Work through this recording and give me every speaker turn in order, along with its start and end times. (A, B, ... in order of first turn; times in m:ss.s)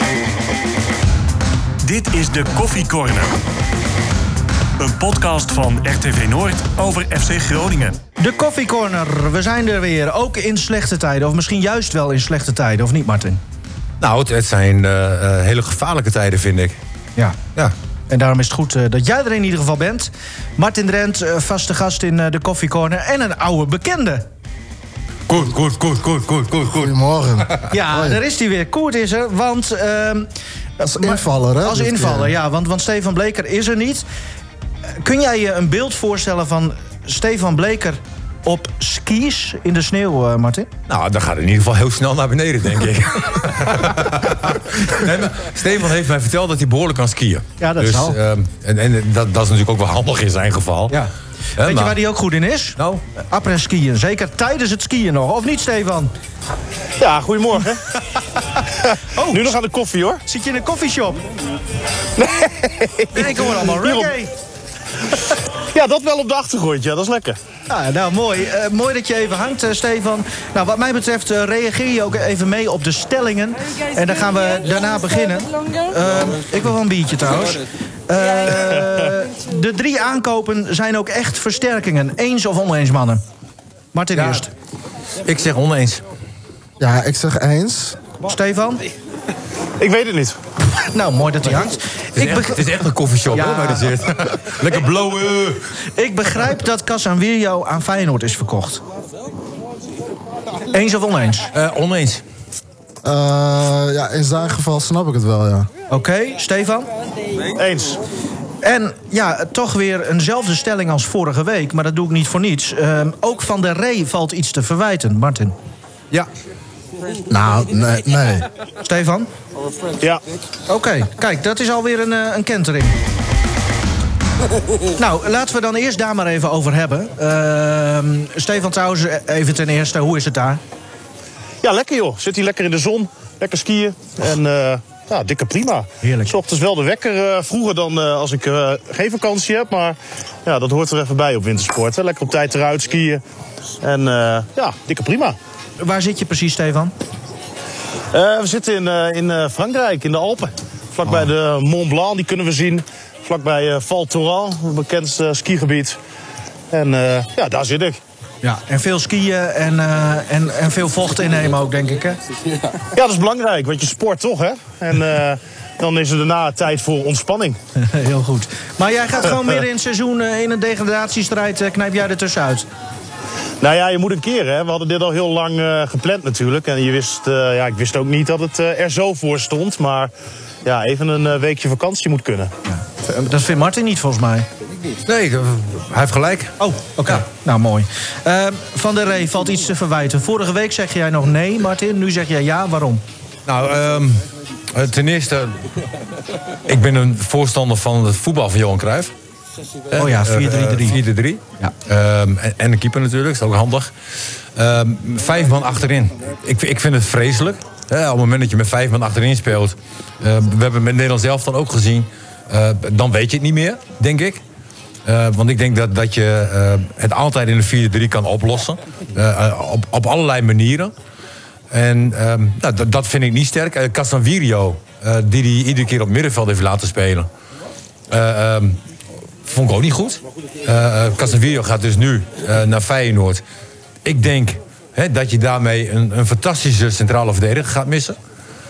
0:01.8-0:03.4 A
0:04.8-0:08.0 A
0:08.2-0:13.4 B
0:14.0-0:16.8 C
0:18.1-0:24.3 B
0:25.3-0:26.9 C
0:26.7-0:28.2 D
0:27.7-0:34.0 B
0:30.8-0:32.4 D
0:35.0-0:40.7 B
0:40.9-0:51.0 C
0:47.6-0:48.2 B
0:50.9-0:56.1 B
0:51.6-0:52.0 C
0:57.0-0:57.8 E
0:59.1-0:59.5 B
0:59.3-1:00.2 E
1:00.3-1:01.2 B
1:02.2-1:04.1 E
1:03.1-1:04.3 B
1:05.7-1:07.4 E
1:07.7-1:23.2 B
1:23.9-1:24.5 B
1:24.2-1:24.4 C
1:25.2-1:26.0 C
1:26.8-1:28.0 D
1:28.2-1:28.8 B
1:29.8-1:30.4 E
1:30.8-1:32.7 B
1:32.2-1:35.7 C
1:33.3-1:33.9 B
1:35.9-1:38.8 B
1:40.7-1:41.5 B
1:41.5-1:42.2 C
1:43.0-1:45.7 D
1:45.9-1:46.9 B
1:47.6-1:48.0 E
1:48.6-1:55.6 B
1:57.3-1:58.5 D
1:58.8-1:59.3 B
2:00.7-2:03.0 B
2:05.0-2:10.6 B
2:11.6-2:23.2 E
2:16.0-2:16.3 B
2:23.8-2:25.4 E
2:25.8-2:26.9 B
2:28.1-2:36.0 E
2:31.0-2:31.3 B
2:36.7-2:38.0 E
2:38.4-2:42.2 B
2:42.9-2:47.6 E
2:47.8-2:52.7 B
2:53.6-3:00.1 E
3:00.6-3:02.5 E
3:02.7-3:04.5 B
3:05.1-3:07.2 C
3:06.6-3:13.0 B
3:13.5-3:15.6 C
3:16.7-3:19.1 C
3:19.9-3:23.9 C
3:20.0-3:21.0 B
3:24.6-3:34.4 C
3:35.0-3:40.9 C
3:41.7-3:47.3 C
3:48.1-3:48.8 C
3:49.5-3:53.4 C
3:54.0-3:58.2 C